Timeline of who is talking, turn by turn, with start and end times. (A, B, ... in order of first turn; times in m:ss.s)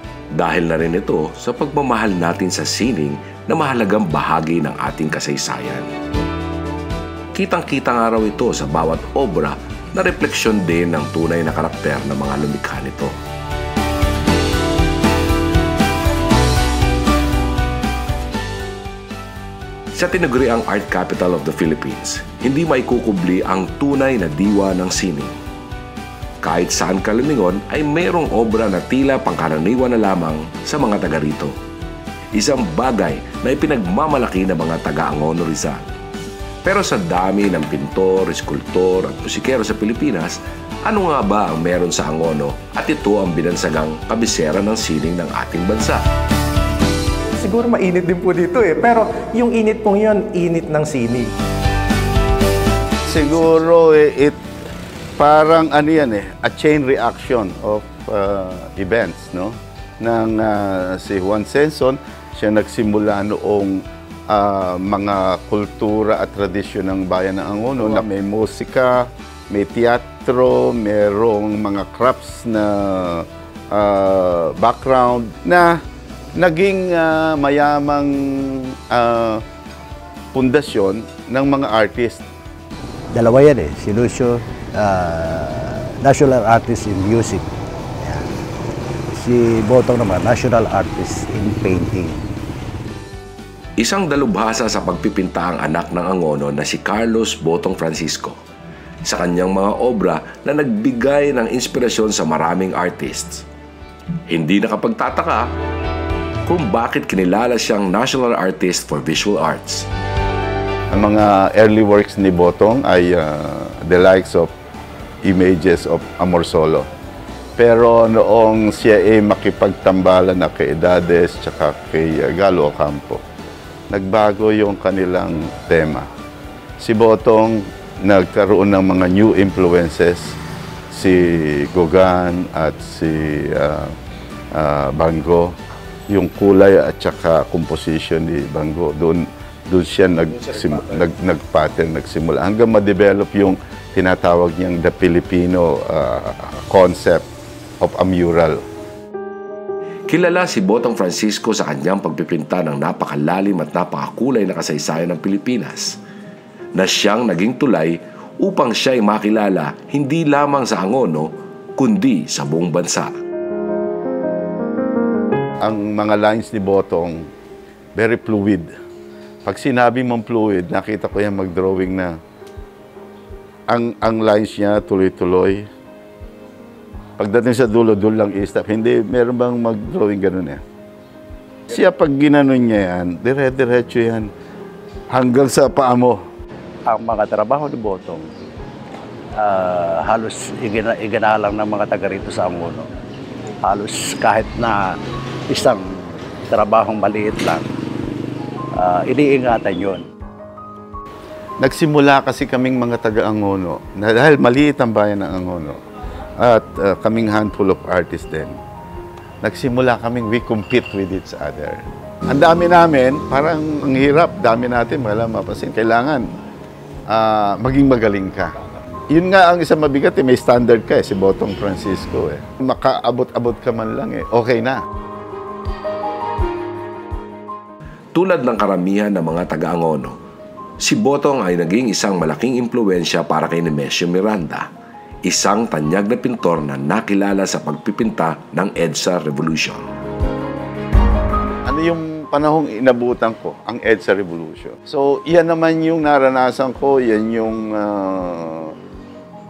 0:00.3-0:05.9 A
0:07.3-0:13.1 A
0:19.9-0:25.3 A
0:26.4-0:31.5 A
0:32.3-0:35.8 A
0:36.6-0:46.0 A
0:47.3-0:51.3 B
0:53.1-0:54.4 C
0:55.2-1:15.8 C
1:16.4-1:19.4 C
1:20.3-1:22.2 C
1:23.1-1:27.5 D
1:28.0-1:28.3 D
1:29.1-1:32.3 D
1:33.8-1:38.4 A
1:39.0-1:43.4 A
1:44.3-1:45.5 A
1:46.4-1:49.9 A
1:50.9-1:54.5 C
1:55.2-1:56.8 C
1:57.6-2:03.2 C
2:03.9-2:06.1 C
2:06.8-2:10.4 C
2:10.9-2:13.9 C
2:14.5-2:15.5 C
2:16.1-2:27.3 C
2:27.8-2:28.6 C
2:30.1-2:36.0 A
2:36.7-2:43.1 A
2:45.6-2:47.3 C
2:48.0-2:48.7 C
2:49.4-2:52.2 C
2:53.7-2:55.7 C
2:57.2-3:00.6 C
3:01.7-3:04.3 C
3:05.1-3:06.2 C
3:06.8-3:08.3 D
3:09.4-3:12.9 D
3:13.6-3:15.0 D
3:15.5-3:17.7 D
3:18.8-3:20.0 D
3:21.6-3:25.8 C
3:26.4-3:28.5 C
3:29.4-3:31.8 C
3:32.3-3:36.2 C
3:37.1-3:38.6 C
3:39.1-3:44.8 C
3:48.1-3:50.2 A
3:50.8-3:54.7 A
3:55.2-3:59.8 A
4:01.6-4:08.7 C